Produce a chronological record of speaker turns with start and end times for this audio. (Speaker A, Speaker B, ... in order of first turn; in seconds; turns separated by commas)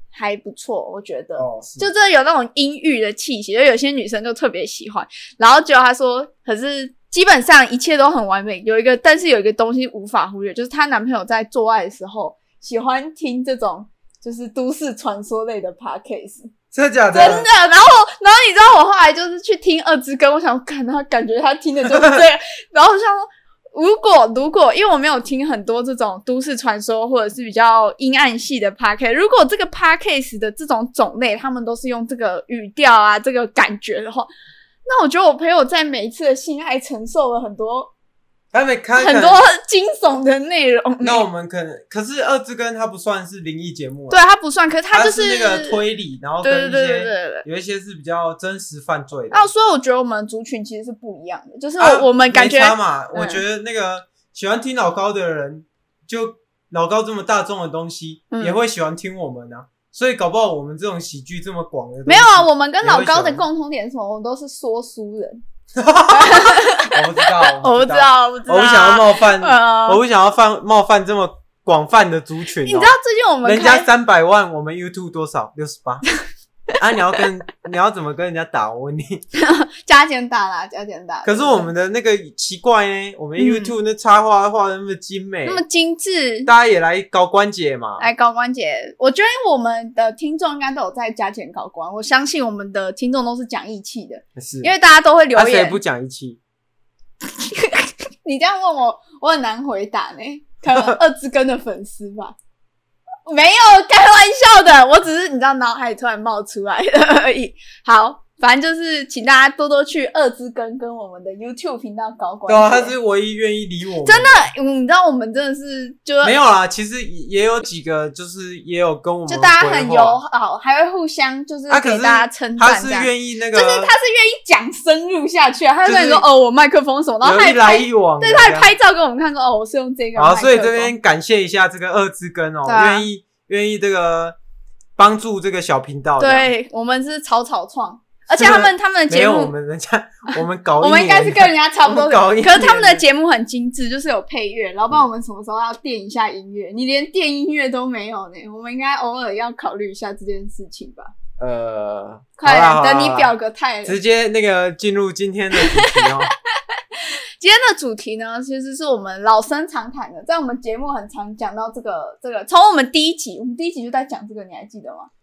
Speaker A: 0.1-16.5, Speaker B: 1.4-1.9, Speaker B: 16.7-17.5, Speaker A: 17.1-34.3, Speaker A: 34.9-37.9, Speaker B: 38.5-39.4, Speaker A: 39.0-41.3, Speaker B: 41.0-44.2, Speaker A: 44.1-45.8, Speaker B: 44.9-49.5, Speaker A: 46.4-47.4, Speaker A: 49.3-53.4, Speaker B: 51.8-63.4, Speaker A: 58.3-58.6, Speaker A: 62.0-65.4, Speaker B: 65.8-72.9, Speaker A: 66.1-70.0, Speaker A: 72.6-73.9, Speaker B: 73.4-76.0, Speaker B: 76.8-79.2, Speaker A: 79.3-81.7, Speaker B: 81.2-85.6, Speaker A: 83.4-83.7, Speaker A: 85.5-86.5, Speaker B: 86.5-88.0, Speaker A: 88.0-95.8, Speaker B: 94.4-94.7, Speaker B: 95.3-96.4, Speaker A: 97.3-102.3, Speaker B: 100.7-101.0, Speaker A: 103.3-112.9, Speaker B: 112.5-114.4, Speaker A: 114.0-116.3, Speaker B: 116.2-120.2, Speaker A: 119.3-130.9, Speaker B: 121.7-123.9, Speaker B: 125.8-126.2, Speaker B: 127.2-128.7, Speaker B: 130.1-134.3, Speaker A: 132.7-133.1, Speaker B: 135.0-136.5, Speaker A: 136.2-139.5, Speaker B: 138.3-143.0, Speaker A: 140.8-151.1, Speaker B: 151.4-153.3, Speaker A: 152.4-154.0, Speaker B: 153.8-156.3, Speaker A: 155.5-156.2, Speaker A: 156.8-165.1